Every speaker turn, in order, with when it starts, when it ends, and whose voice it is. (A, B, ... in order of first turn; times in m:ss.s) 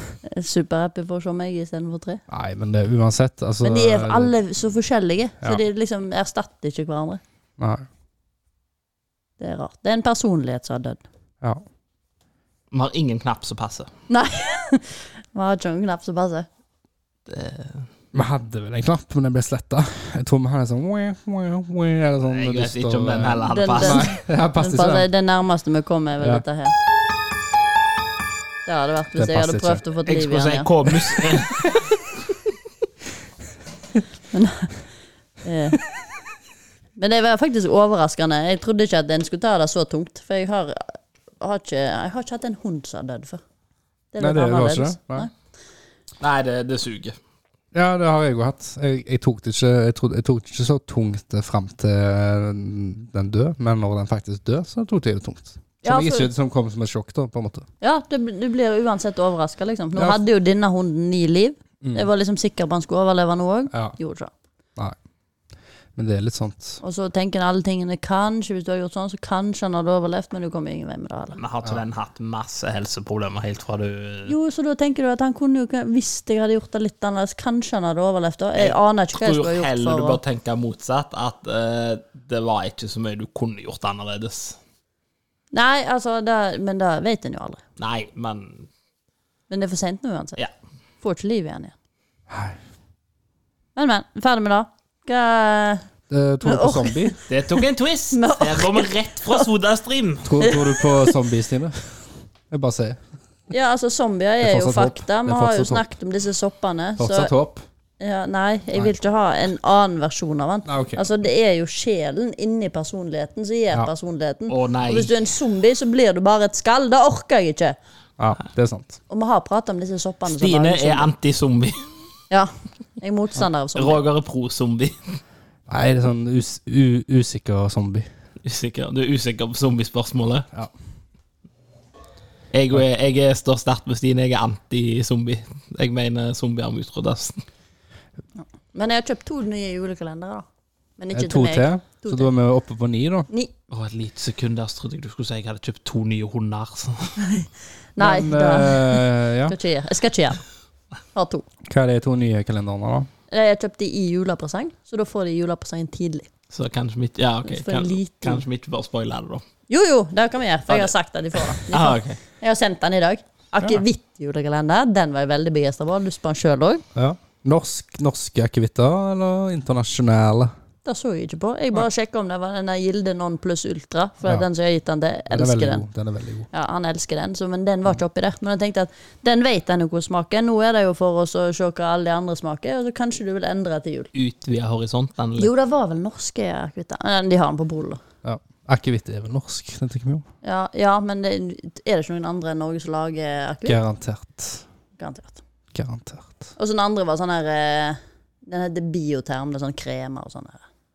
0:00.2-0:02.2 A
0:02.3-0:04.3 B
0:03.6-0:07.2 A
0:07.6-0:07.8 B
0:09.4-0:11.0 A
0:12.7-0:13.9 C
0:14.1-0:16.5 A
0:17.3-0:17.9 C
0:18.1-0:25.1 B
0:22.2-0:24.1 C
0:23.4-0:26.7 A
0:28.6-0:31.2 A
0:29.2-0:29.8 B
0:30.0-0:31.7 C
0:34.3-0:34.7 A
0:35.4-0:35.8 A
0:37.0-0:43.4 A
0:44.1-0:45.3 A
0:44.2-0:45.3 B
0:46.2-0:47.2 C
0:47.7-0:57.6 B
0:55.8-0:56.3 A
0:57.8-1:04.3 A
1:06.0-1:06.8 B
1:06.8-1:11.4 A
1:11.4-1:14.3 C
1:14.2-1:20.2 A
1:18.6-1:24.6 C
1:25.5-1:27.6 A
1:27.8-1:28.7 C
1:29.5-1:30.4 A
1:31.0-1:31.7 A
1:32.3-1:32.6 B
1:33.8-1:35.8 A
1:36.1-1:37.2 B
1:36.4-1:37.2 A
1:37.3-1:40.4 C
1:38.1-1:39.4 A
1:40.2-1:43.0 B
1:40.4-1:41.1 A
1:43.5-1:47.3 A
1:44.4-1:45.8 B
1:47.0-1:47.6 B
1:48.0-1:57.8 A
1:50.6-1:51.1 B
1:54.5-1:55.1 C
1:58.2-1:59.0 B
1:59.1-2:01.1 A
2:00.3-2:01.8 C
2:02.3-2:04.0 A
2:03.7-2:05.2 C
2:05.7-2:08.1 B
2:08.4-2:10.5 C
2:12.5-2:17.4 C
2:18.7-2:20.4 A
2:21.0-2:22.3 A
2:21.1-2:23.3 B
2:23.7-2:27.2 C
2:27.2-2:30.4 A
2:28.0-2:29.5 B
2:31.1-2:31.5 A
2:31.7-2:33.1 B
2:33.3-2:36.3 A
2:36.5-2:39.4 C
2:37.4-2:38.4 A
2:39.7-2:46.8 A
2:40.7-2:42.2 C
2:46.9-2:50.5 B
2:50.8-2:55.8 A
2:55.3-2:56.5 B
2:56.5-3:04.1 A
3:04.1-3:05.5 C
3:05.4-3:08.0 A
3:08.2-3:10.2 B
3:10.4-3:13.8 A
3:13.6-3:14.6 B
3:15.0-3:15.4 A
3:15.7-3:16.4 B
3:16.6-3:20.6 A